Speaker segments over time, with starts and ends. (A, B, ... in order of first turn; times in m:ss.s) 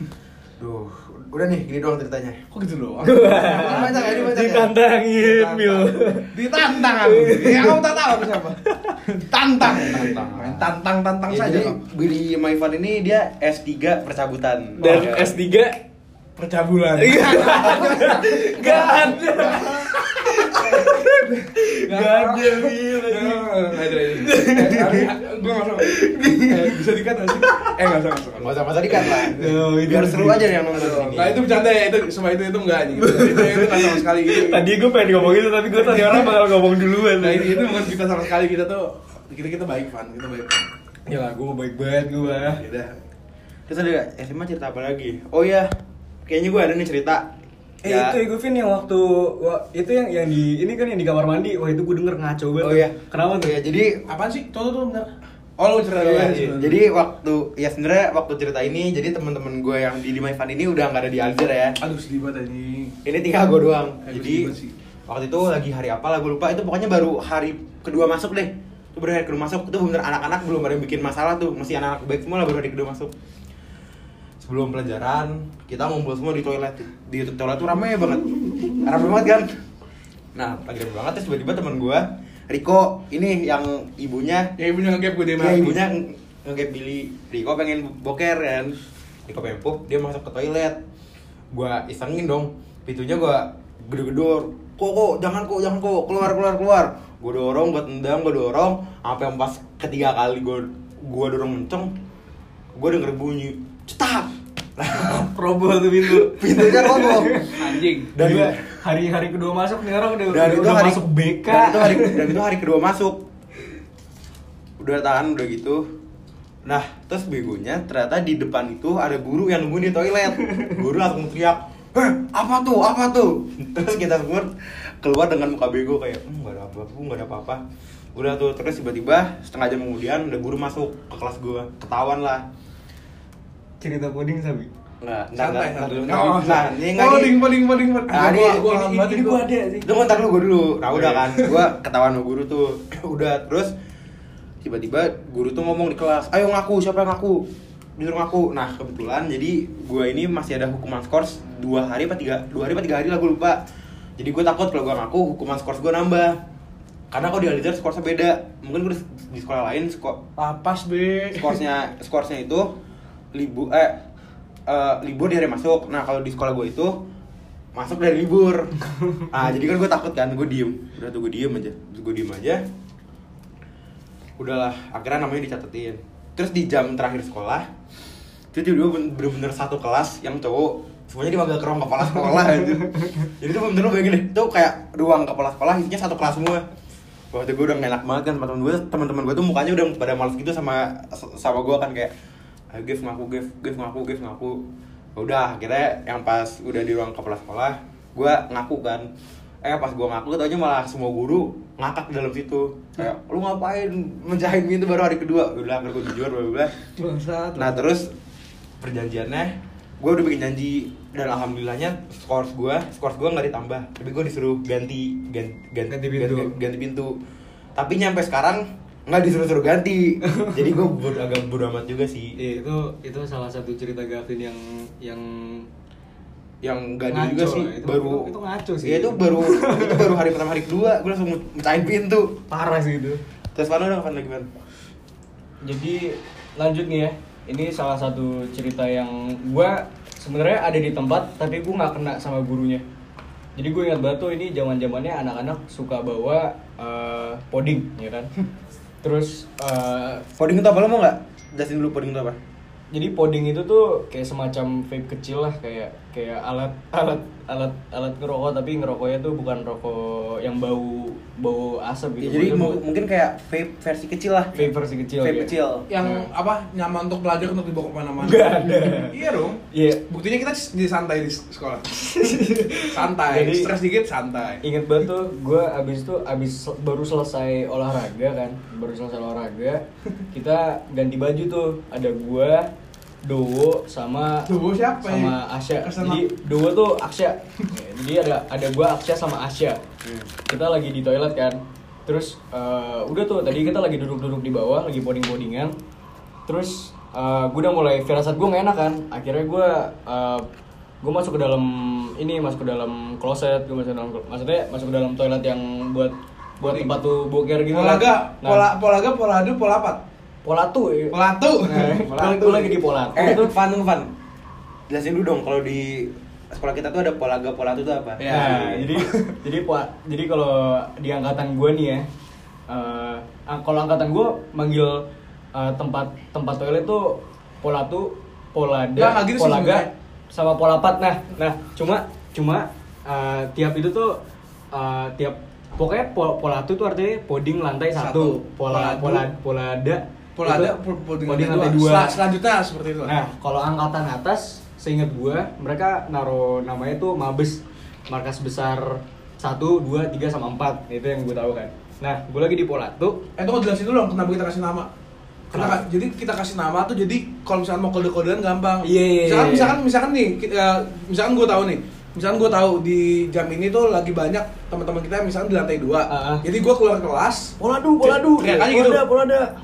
0:00.6-0:02.4 A
0:02.5-0:04.6 B
0:03.0-0:08.0 C
0:03.5-0:04.7 A
0:05.2-0:11.8 B
0:08.6-0:09.2 C
0:09.6-0:10.7 A
0:11.3-0:15.3 A
0:14.8-0:15.8 C
0:14.8-0:15.2 B
0:16.4-0:29.6 B
0:17.0-0:25.1 C
0:25.8-0:26.8 C
0:27.3-0:27.7 C
0:28.4-0:31.4 A
0:28.9-0:30.6 C
0:30.7-0:34.6 B
0:33.0-0:37.9 C
0:35.7-0:36.6 B
0:37.2-0:40.6 B
0:41.0-0:42.6 C
0:42.4-0:43.0 B
0:43.7-0:45.7 A
0:46.2-0:47.3 A
0:47.8-0:53.5 C
0:47.8-0:48.2 A
0:52.6-0:54.0 A
0:54.1-0:56.8 B
0:56.0-0:56.6 C
0:56.5-1:01.8 A
1:01.8-1:02.9 B
1:03.0-1:04.5 A
1:04.0-1:04.8 B
1:05.1-1:13.1 A
1:14.4-1:19.6 A
1:20.3-1:24.5 A
1:24.6-1:25.8 B
1:25.4-1:28.7 A
1:29.2-1:30.8 A
1:31.5-1:41.9 A
1:42.7-1:44.3 A
1:44.8-1:45.2 B
1:44.9-1:52.3 C
1:46.1-1:47.5 A
1:47.6-1:48.1 B
1:48.1-1:48.6 A
1:50.3-1:53.2 A
1:54.8-1:55.8 A
1:56.6-2:07.6 A
2:00.4-2:00.8 C
2:08.1-2:12.4 A
2:13.8-2:14.7 C
2:15.0-2:17.4 A
2:15.4-2:19.4 B
2:18.1-2:19.1 A
2:19.0-2:19.9 C
2:19.8-2:23.7 A
2:20.9-2:21.7 B
2:24.6-2:27.4 A
2:28.0-2:33.6 A
2:34.2-2:36.3 A
2:37.1-2:40.2 A
2:40.4-2:41.6 B
2:41.3-2:42.7 A
2:43.3-2:44.0 A
2:44.7-2:47.0 A
2:47.7-2:52.6 A
2:54.4-2:57.7 A
2:58.5-3:06.6 A
3:03.0-3:03.2 C
3:07.3-3:12.1 A
3:12.7-3:14.6 A
3:15.2-3:19.1 A
3:19.6-3:26.7 A
3:26.9-3:27.9 B
3:27.6-3:28.1 A
3:28.8-3:37.1 A
3:35.9-3:36.5 C
3:37.8-3:42.3 A
3:40.3-3:40.7 C
3:42.4-3:45.6 C
3:46.6-3:48.3 A
3:47.1-3:50.2 C
3:48.8-3:52.3 A
3:52.5-3:53.2 C
3:53.5-3:54.5 A
3:55.6-4:02.8 C
4:03.6-4:08.3 C
4:09.0-4:10.2 C
4:10.4-4:12.4 A
4:12.9-4:22.8 C
4:22.2-4:24.7 A
4:24.5-4:26.2 C
4:25.2-4:25.9 A
4:25.9-4:34.6 B
4:28.2-4:29.2 C
4:29.7-4:30.0 C
4:32.0-4:33.7 C
4:34.6-4:42.7 C
4:43.2-4:44.5 C
4:44.5-4:46.2 B
4:45.0-4:49.8 C
4:50.0-4:50.3 A
4:50.5-4:55.7 C
4:56.5-5:00.5 C
5:01.0-5:08.7 C
5:06.6-5:06.9 B
5:07.7-5:10.0 B
5:10.4-5:13.5 C
5:11.1-5:12.7 B
5:13.1-5:14.1 A
5:14.9-5:18.9 A
5:18.2-5:19.4 B
5:18.3-5:22.1 C
5:22.7-5:34.2 C
5:29.0-5:29.9 B
5:34.7-5:42.2 C
5:38.0-5:39.2 B
5:40.4-5:43.1 B
5:43.0-5:53.2 C
5:53.4-5:54.9 B
5:55.5-5:55.8 C
5:55.5-6:09.0 B
5:58.8-5:59.8 C
6:06.1-6:06.4 C
6:07.6-6:09.5 C